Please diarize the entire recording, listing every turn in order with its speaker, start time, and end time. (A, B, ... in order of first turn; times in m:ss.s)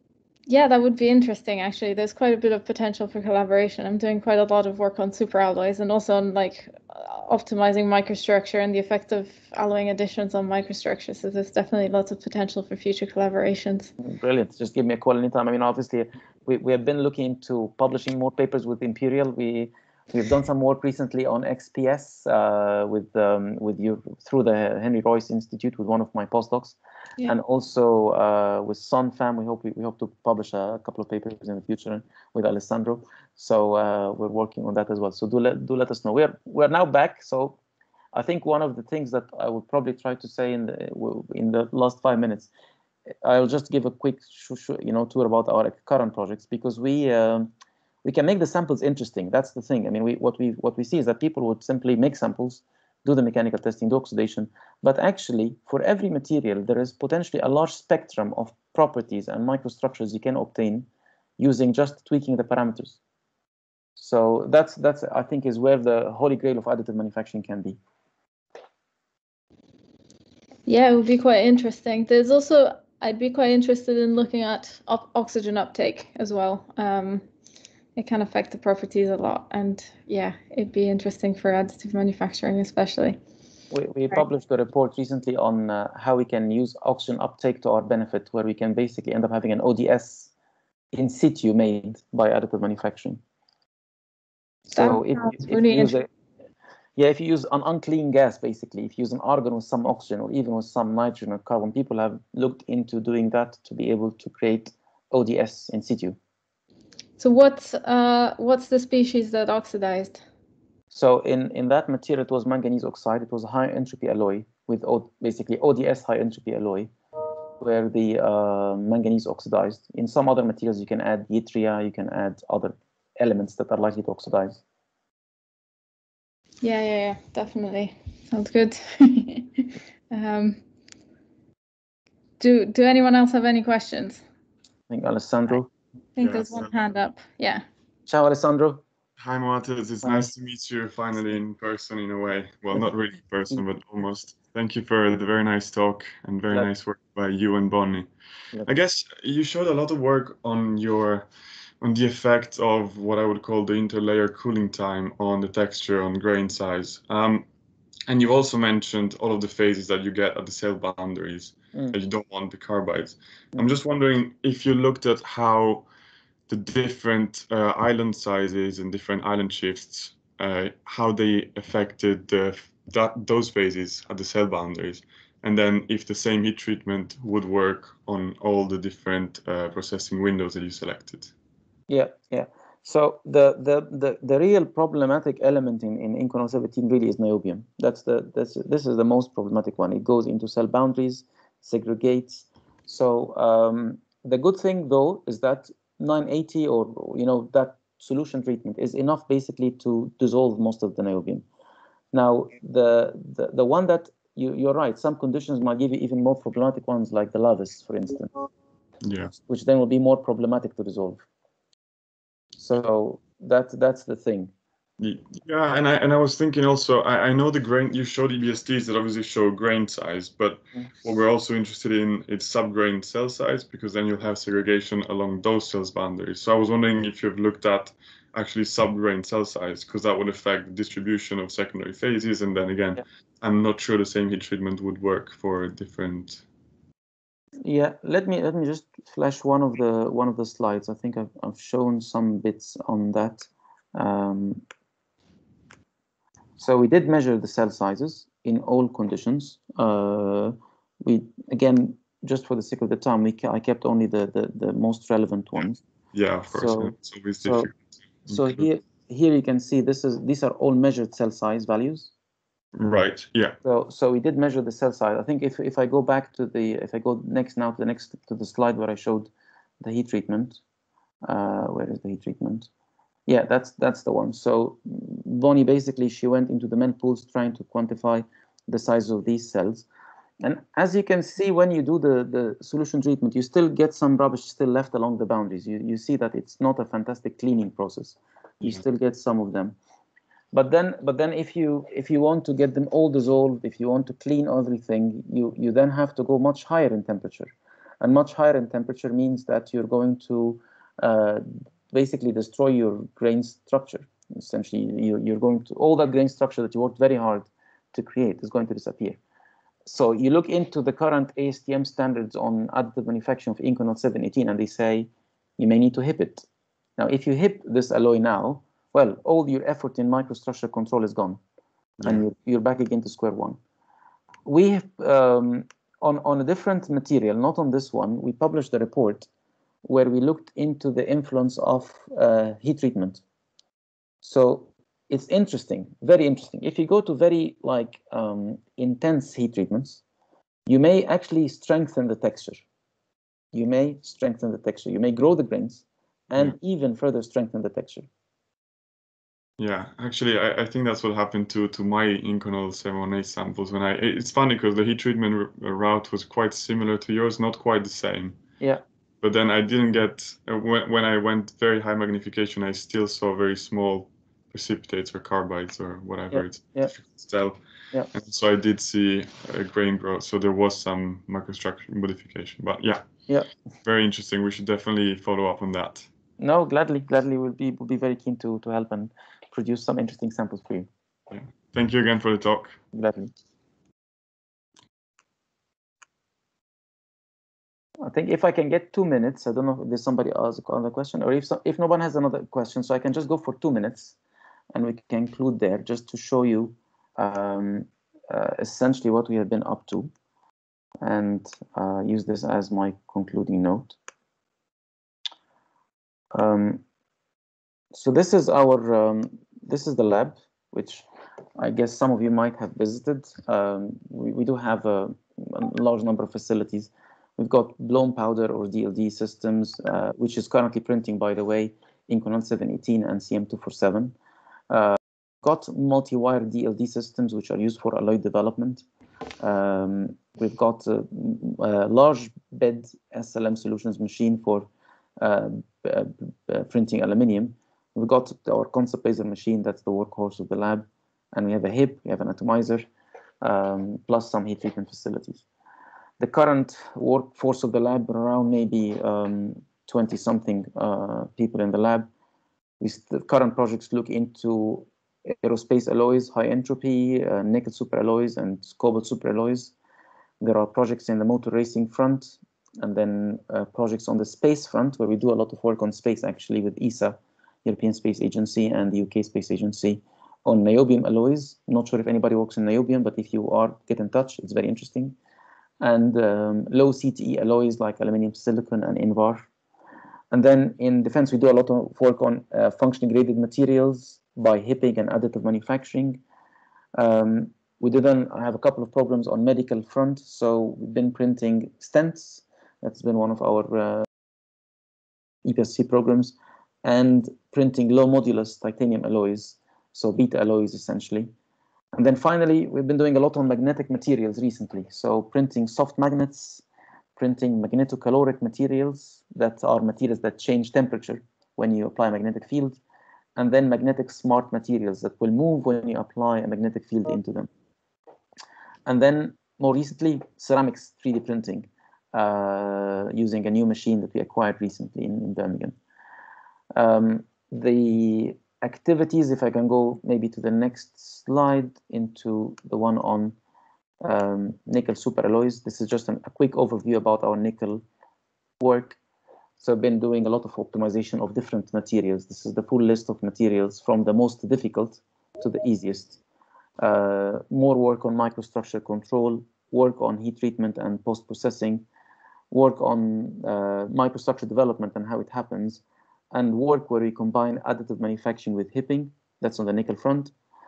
0:00.5-0:13.9 A
0:14.0-0:37.6 B
0:38.1-0:42.5 B
0:43.2-0:47.5 B
0:48.0-1:03.0 B
1:04.0-1:07.8 B
1:10.6-1:17.2 A
1:18.0-1:23.2 A
1:23.7-1:30.3 B
1:30.9-1:33.2 B
1:34.7-1:35.9 A
1:34.7-1:36.1 B
1:37.0-1:46.2 B
1:47.2-1:50.2 A
1:50.9-1:56.9 B
1:57.6-2:04.6 B
2:06.6-2:10.6 A
2:12.4-2:14.2 A
2:14.9-2:15.7 B
2:16.2-2:17.6 A
2:16.2-2:16.9 C
2:18.1-2:18.8 B
2:19.2-2:28.1 C
2:20.0-2:20.3 B
2:28.6-2:31.3 C
2:31.8-2:37.5 C
2:38.1-2:45.9 C
2:46.5-3:01.3 C
3:01.9-3:21.4 B
3:22.1-3:28.3 B
3:29.0-3:29.3 C
3:29.5-3:31.2 B
3:32.6-3:34.5 B
3:35.0-3:56.4 C
3:57.6-4:04.6 B
4:06.6-4:15.8 B
4:16.1-4:18.7 C
4:16.5-4:17.7 B
4:18.3-4:22.1 B
4:22.7-4:23.6 C
4:23.6-4:29.3 B
4:29.8-4:30.6 B
4:31.2-4:32.7 B
4:33.3-4:39.9 B
4:40.4-4:49.8 B
4:50.5-5:09.2 B
5:09.9-5:16.4 B
5:17.0-5:21.4 B
5:22.0-5:23.6 B
5:24.4-5:29.3 B
5:29.8-5:33.2 B
5:34.2-5:40.0 B
5:40.7-5:42.6 B
5:43.5-5:48.1 B
5:49.6-5:58.4 C
5:59.2-6:13.0 C
6:06.3-6:06.9 B
6:13.8-6:16.0 C
6:16.4-6:20.9 B
6:21.3-6:22.8 C
6:22.9-6:23.3 B
6:28.0-6:34.2 B
6:34.7-6:40.1 B
6:41.0-6:44.0 B
6:46.3-6:46.8 B
6:47.9-7:04.1 B
7:04.7-7:08.9 B
7:09.4-7:14.7 B
7:15.2-7:22.9 B
7:23.4-7:25.4 B
7:26.2-7:32.1 B
7:32.8-7:39.7 B
7:40.4-7:55.2 B
7:55.8-7:59.5 B
8:00.3-8:06.2 B
8:07.0-8:14.0 B
8:15.4-8:21.3 B
8:21.9-8:26.6 B
8:27.2-8:32.8 B
8:33.4-8:37.5 B
8:38.9-8:45.7 B
8:46.7-8:53.4 B
8:54.0-8:57.8 B
8:58.6-8:59.0 B
8:59.6-9:06.2 B
9:06.8-9:11.8 B
9:12.5-9:20.3 B